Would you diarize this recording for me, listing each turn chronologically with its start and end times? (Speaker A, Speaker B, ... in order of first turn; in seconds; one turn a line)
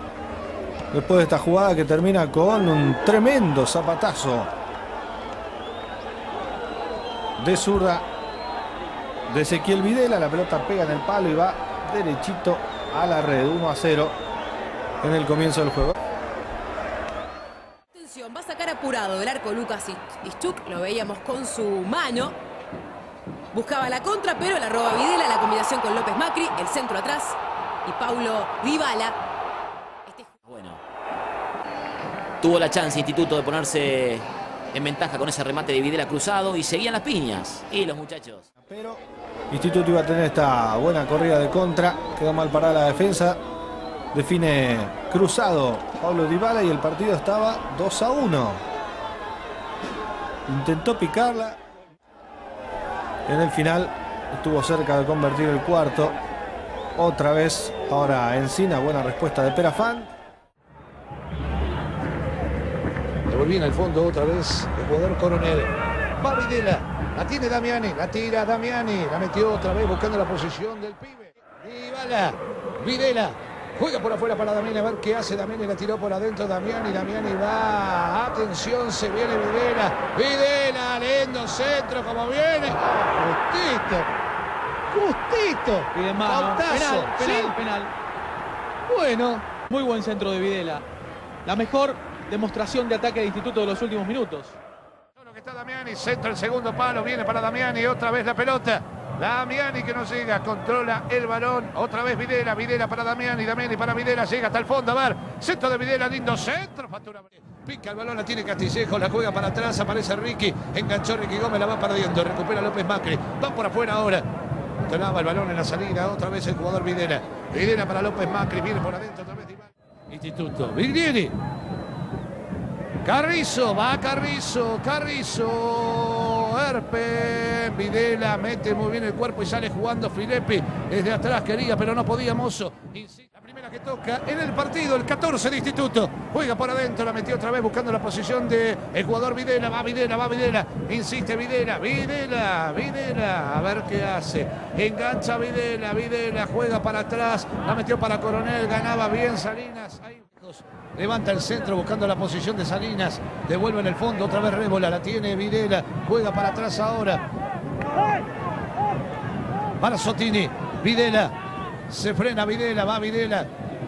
Speaker A: 0.9-4.5
Speaker A: 7.4-8.0
Speaker A: 9.3-14.2
Speaker A: 15.0-15.9
Speaker B: 17.9-22.4
Speaker B: 23.5-29.2
Speaker B: 30.1-30.3
Speaker C: 30.5-30.8
Speaker C: 32.4-38.4
Speaker A: 38.6-39.0
Speaker A: 39.5-43.4
Speaker A: 44.1-48.6
Speaker A: 50.5-51.6
Speaker A: 53.3-56.1
Speaker A: 57.0-60.1
Speaker D: 63.2-84.1
Speaker D: 84.9-87.5
Speaker E: 85.9-87.9
Speaker D: 88.9-89.2
Speaker E: 89.3-90.8
Speaker E: 91.4-94.5
Speaker D: 95.2-114.2
Speaker D: 114.8-121.3
Speaker D: 123.0-157.2
Speaker D: 159.8-161.3
Speaker D: 161.9-163.5